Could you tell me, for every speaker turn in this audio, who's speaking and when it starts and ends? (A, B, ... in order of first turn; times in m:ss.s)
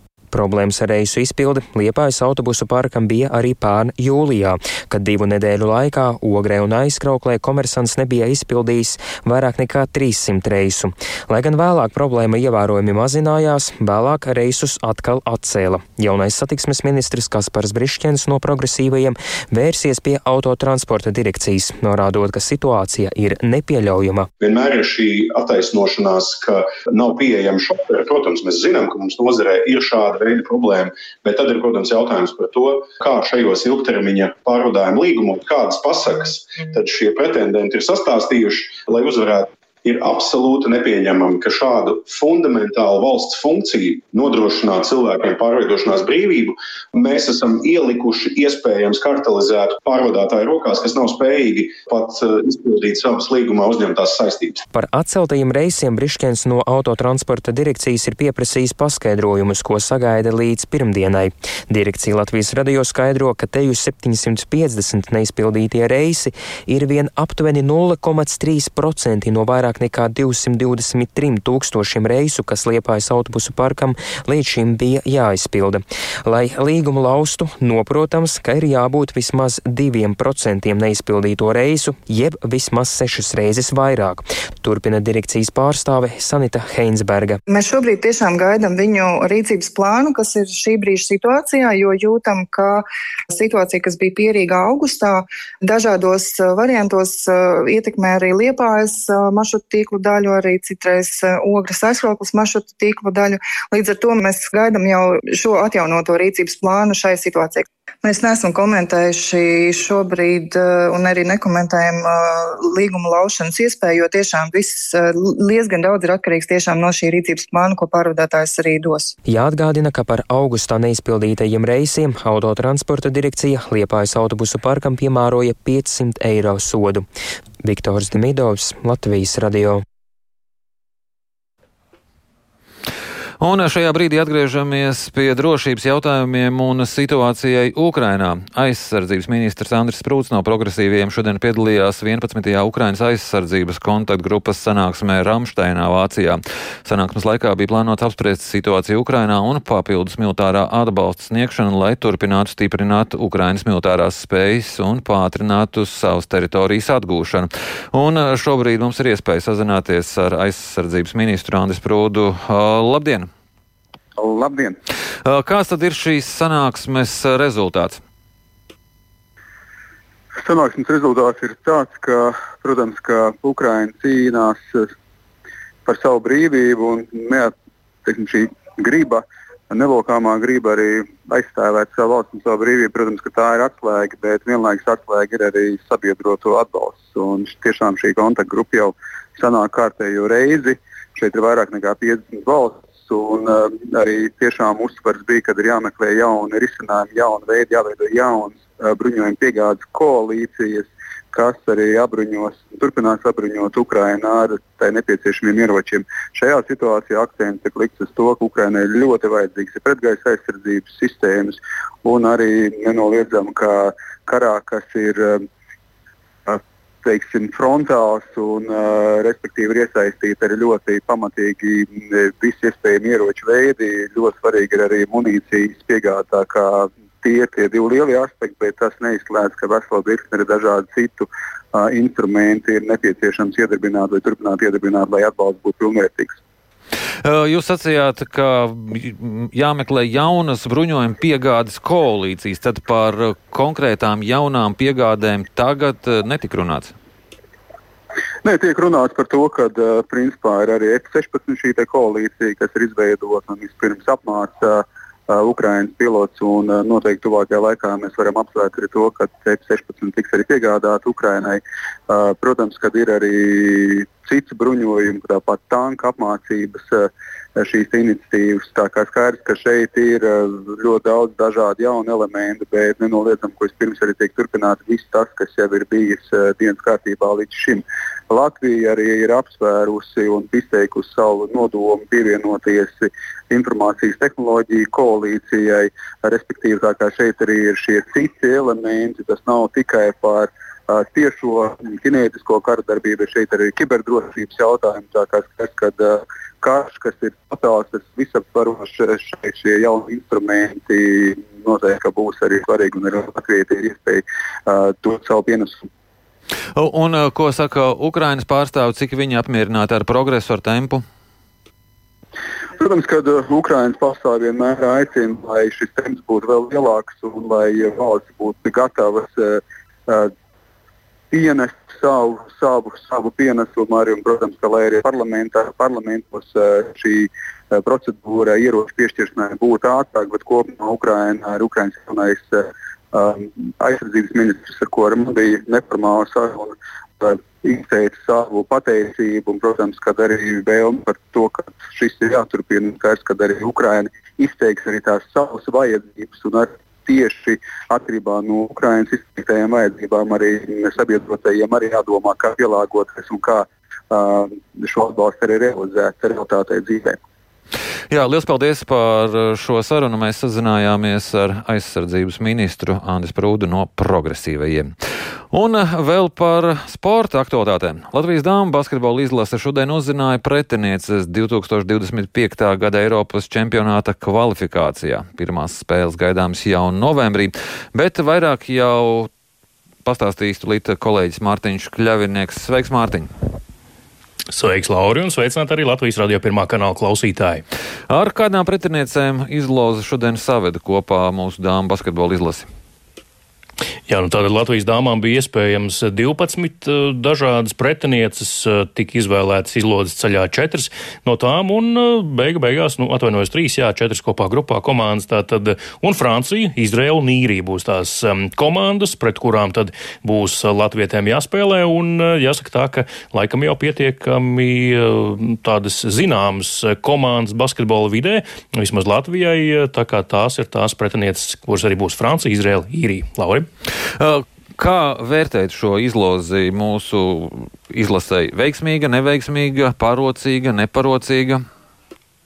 0:00.3-0:24.3 A
0:24.4-0:54.6 B
0:54.7-1:27.4 A
1:27.5-1:59.1 C
1:59.3-2:07.0 A
2:07.6-2:09.8 A
2:13.4-2:43.3 D
2:44.2-2:44.8 E
2:45.2-2:48.0 D
2:50.4-2:54.9 E
2:55.9-3:35.4 E
3:36.5-3:56.4 E
3:57.2-4:06.9 D
4:08.4-5:05.9 E
5:06.8-5:11.0 D
5:12.8-5:20.3 E
5:21.3-5:57.2 E
5:58.1-6:04.9 D
6:05.5-6:19.3 D
6:20.0-6:23.3 D
6:24.5-6:27.6 F
6:28.1-6:32.7 D
6:34.1-7:03.7 F
7:04.2-7:11.6 D